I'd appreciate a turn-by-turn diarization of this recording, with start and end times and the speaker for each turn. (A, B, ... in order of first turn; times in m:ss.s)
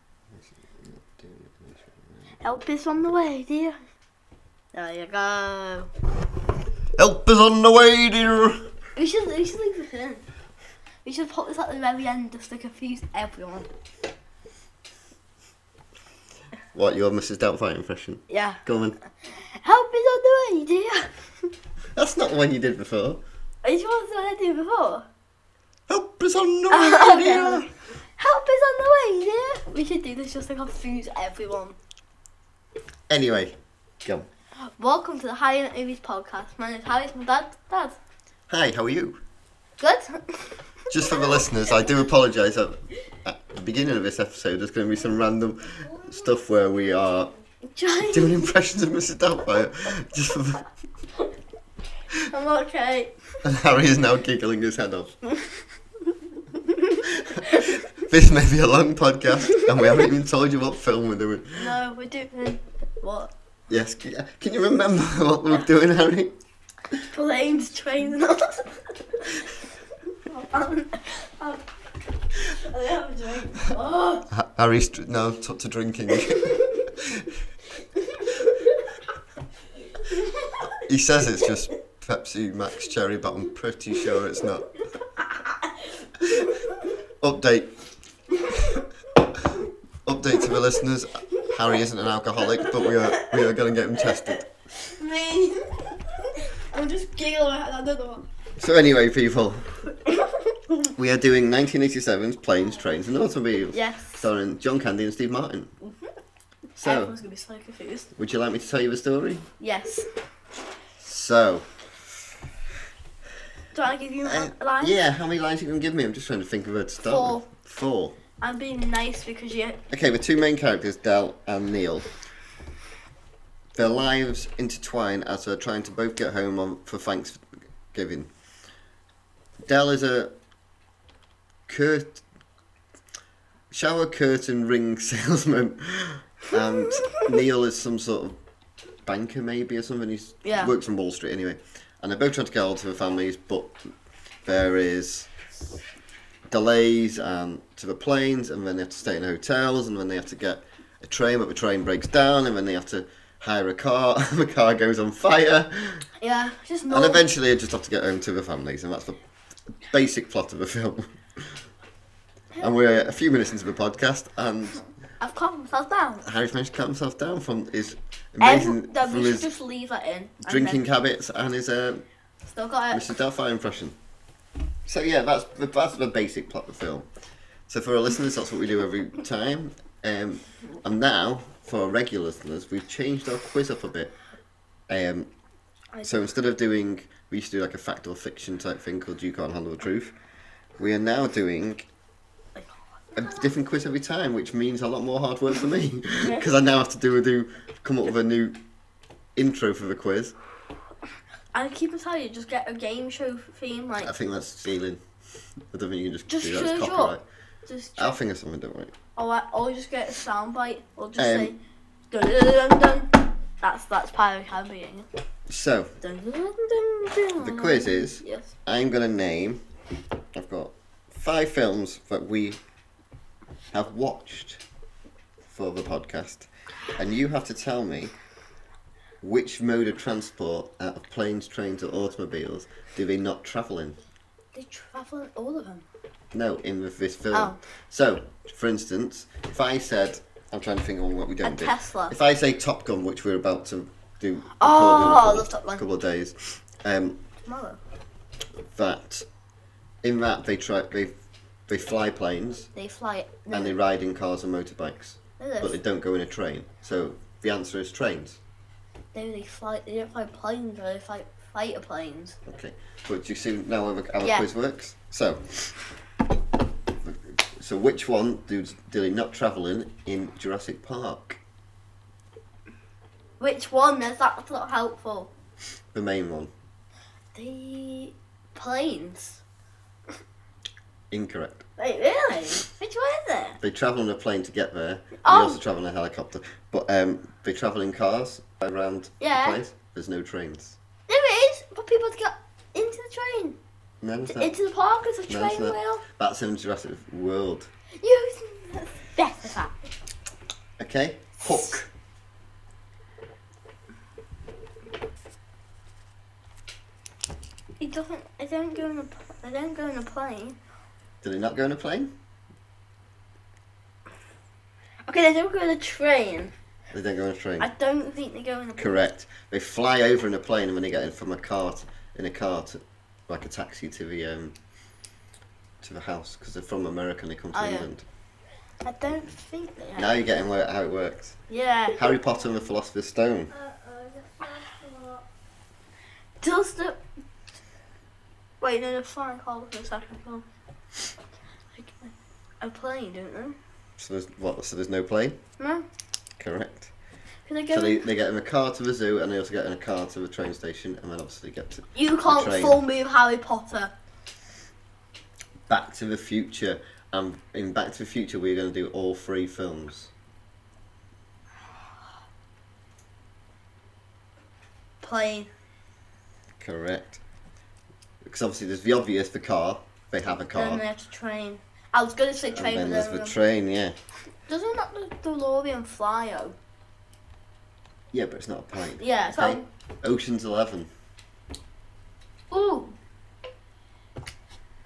0:00.3-0:02.3 A
0:02.4-0:03.8 B
0:04.7-0:05.9 B
0:07.0-0:08.7 A
0:09.0-0:10.2 B
0:11.0-0:13.7 B
0:16.7-0:19.0 A
0:18.3-0:18.6 B
0:19.2-0:21.5 B
0:22.0-0:23.2 A
0:23.6-0:25.0 B
0:25.9-0:27.7 A
0:26.7-0:31.8 B
0:33.1-0:34.3 A
0:34.8-0:38.0 B
0:38.5-0:39.2 A
0:39.8-0:41.5 B
0:40.9-0:47.3 A
0:47.7-0:48.5 B
0:48.1-0:50.6 A
0:52.3-0:53.2 B
0:53.4-0:55.2 A
0:56.5-0:58.0 B
0:57.0-1:01.7 A
1:01.5-1:03.3 B
1:03.7-1:06.3 A
1:07.0-1:09.5 B
1:10.1-1:11.6 B
1:12.3-1:14.3 B
1:14.3-1:17.3 A
1:16.4-1:16.8 B
1:18.0-1:18.8 B
1:20.0-1:20.8 B
1:20.8-1:24.7 A
1:25.2-1:26.7 B
1:27.2-1:27.7 A
1:28.6-1:28.8 B
1:30.0-1:34.4 A
1:32.5-1:33.4 B
1:34.0-1:38.2 B
1:38.6-1:39.8 A
1:40.0-1:40.9 B
1:40.9-1:45.7 A
1:43.7-1:44.2 B
1:45.8-1:46.1 B
1:46.8-1:48.1 B
1:46.8-1:47.2 A
1:48.1-1:49.5 A
1:49.6-1:50.1 B
1:51.0-1:51.7 A
1:53.7-1:55.0 B
1:54.2-1:58.2 A
1:57.0-1:57.4 B
1:58.4-1:59.8 B
1:59.9-2:02.1 A
2:03.7-2:08.3 A
2:09.6-2:10.3 A
2:11.7-2:12.2 A
2:13.7-2:18.4 A
2:17.0-2:17.3 B
2:19.0-2:23.8 A
2:20.4-2:20.7 B
2:24.4-2:25.3 A
2:26.5-2:36.0 A
2:36.2-2:37.2 B
2:36.9-2:39.2 A
2:39.8-2:41.7 A
2:42.6-2:44.8 A
2:45.2-2:46.2 B
2:46.2-2:49.5 A
2:48.4-2:50.8 B
2:50.4-2:52.0 A
2:52.5-2:53.1 B
2:52.9-2:54.0 A
2:54.8-2:57.1 A
2:57.7-3:04.1 A
3:04.9-3:05.3 A
3:06.0-3:10.2 A
3:10.8-3:11.9 A
3:13.1-3:18.6 A
3:19.4-3:20.3 A
3:21.5-3:24.1 B
3:24.0-3:25.0 A
3:25.7-3:27.2 A
3:26.3-3:27.1 B
3:27.6-3:28.2 B
3:28.0-3:28.9 A
3:29.2-3:31.6 B
3:31.2-3:31.5 A
3:32.1-3:35.1 B
3:35.5-3:35.9 A
3:36.0-3:38.5 B
3:37.4-3:39.6 A
3:40.4-3:42.6 A
3:43.7-3:44.6 A
3:45.4-3:48.1 A
3:49.2-3:54.0 A
3:54.5-3:55.8 B
3:56.3-4:07.2 A
3:57.3-3:57.6 B
4:01.4-4:02.1 B
4:04.6-4:05.8 B
4:07.4-4:07.8 B
4:08.6-4:09.2 A
4:10.0-4:11.1 A
4:11.7-4:12.7 A
4:12.7-4:13.8 B
4:13.5-4:18.4 A
4:15.4-4:15.7 B
4:19.1-4:22.4 B
4:22.4-4:25.8 A
4:24.2-4:24.5 B
4:27.0-4:31.4 A
4:33.4-4:35.3 B
4:35.9-4:36.5 A
4:37.3-4:39.4 B
4:41.1-4:41.6 A
4:41.8-4:43.6 B
4:43.6-4:50.8 A
4:45.2-4:45.6 B
4:49.2-4:49.6 B
4:51.1-4:53.6 B
4:54.0-4:54.5 A
4:54.3-4:56.0 B
4:55.3-4:57.7 A
4:58.0-4:59.8 B
5:00.8-5:01.9 A
5:07.8-5:10.6 B
5:11.2-5:12.1 A
5:15.0-5:16.5 B
5:16.9-5:17.7 A
5:17.6-5:19.0 B
5:18.8-5:24.6 A
5:25.8-5:28.0 A
5:27.5-5:27.9 B
5:28.8-5:30.2 B
5:30.0-5:31.4 A
5:31.5-5:32.0 B
5:31.9-5:33.5 A
5:33.7-5:35.2 B
5:36.4-5:37.0 B
5:38.6-5:40.4 B
5:41.7-5:43.6 B
5:44.0-5:45.4 A
5:45.6-5:45.8 B
5:46.4-5:46.9 A
5:47.4-5:48.0 B
5:47.7-5:52.8 A
5:51.9-5:53.9 B
5:55.7-6:00.1 A
6:05.0-6:05.5 B
6:06.6-6:07.2 A
6:08.2-6:10.8 A
6:10.5-6:13.4 B
6:12.5-6:14.0 A
6:14.5-6:16.6 B
6:18.1-6:20.9 A
6:19.0-6:19.6 B
6:22.5-6:23.0 B